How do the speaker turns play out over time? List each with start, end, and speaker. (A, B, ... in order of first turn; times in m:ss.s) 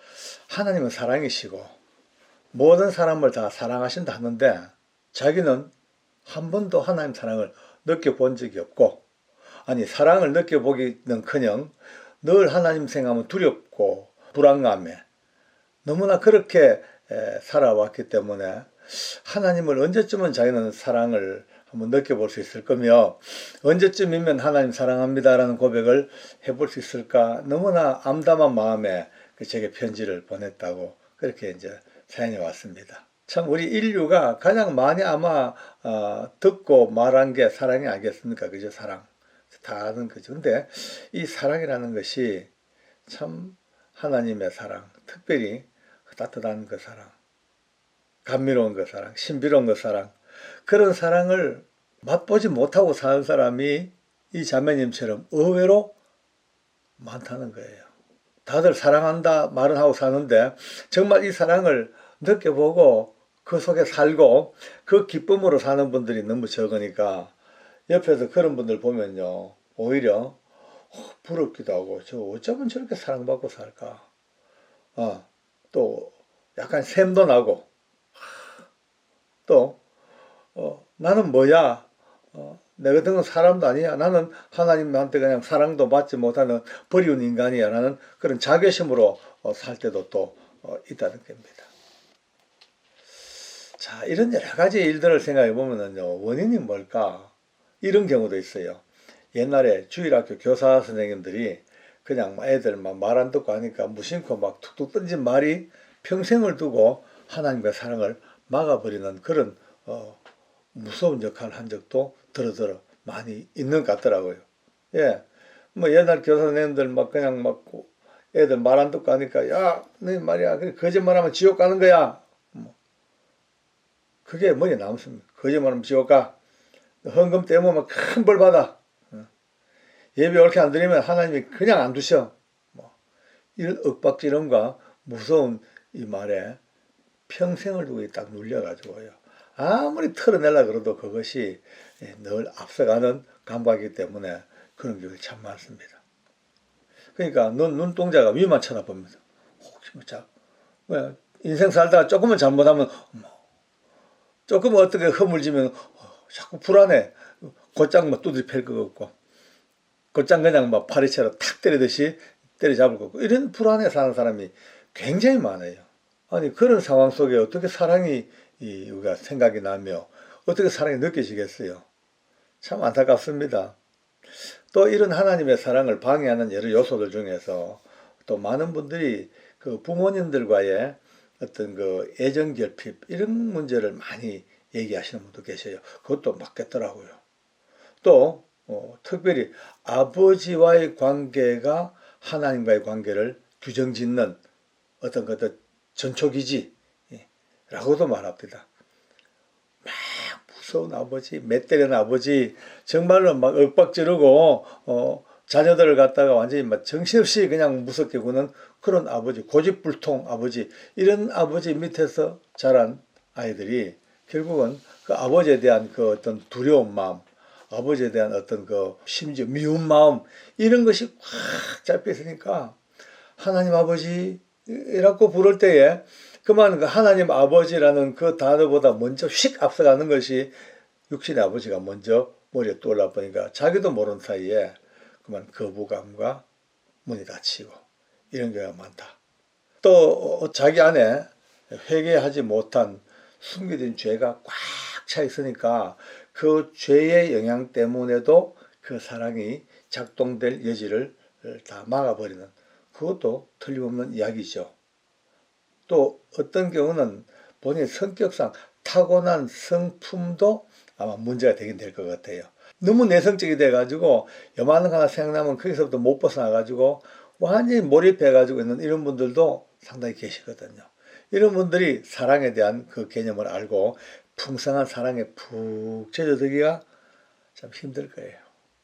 0:00.5-0:01.8 A
0:02.5-0:05.7 A
0:06.3-0:09.0 A
0:09.7-0:15.0 A
0:15.8-0:42.5 A
0:43.1-0:47.1 A
0:48.2-0:50.1 A
0:50.6-0:55.9 A
0:57.0-0:57.9 A
0:58.5-1:07.3 A
1:07.9-1:10.4 A
1:10.9-1:14.0 A
1:15.0-1:18.5 A
1:19.5-1:19.8 A
1:20.6-1:31.7 A
1:33.8-1:38.8 A
1:39.3-1:50.2 A
1:50.7-2:02.8 A
2:04.2-2:06.3 A
2:07.0-2:09.3 A
2:10.2-2:12.9 A
2:13.6-2:16.6 A
2:17.3-2:26.0 A
2:27.2-2:30.3 A
2:30.9-2:33.3 A
2:34.5-2:39.1 A
2:40.1-2:51.8 A
2:52.6-2:53.8 A
2:54.7-3:07.2 A
3:08.0-3:14.4 A
3:15.0-3:18.7 A
3:19.8-3:42.8 A
3:43.4-3:50.5 A
3:51.1-3:56.4 A
3:57.0-3:57.8 A
3:58.3-3:59.2 A
3:59.8-4:14.7 A
4:15.9-4:36.8 A
4:37.6-4:38.4 A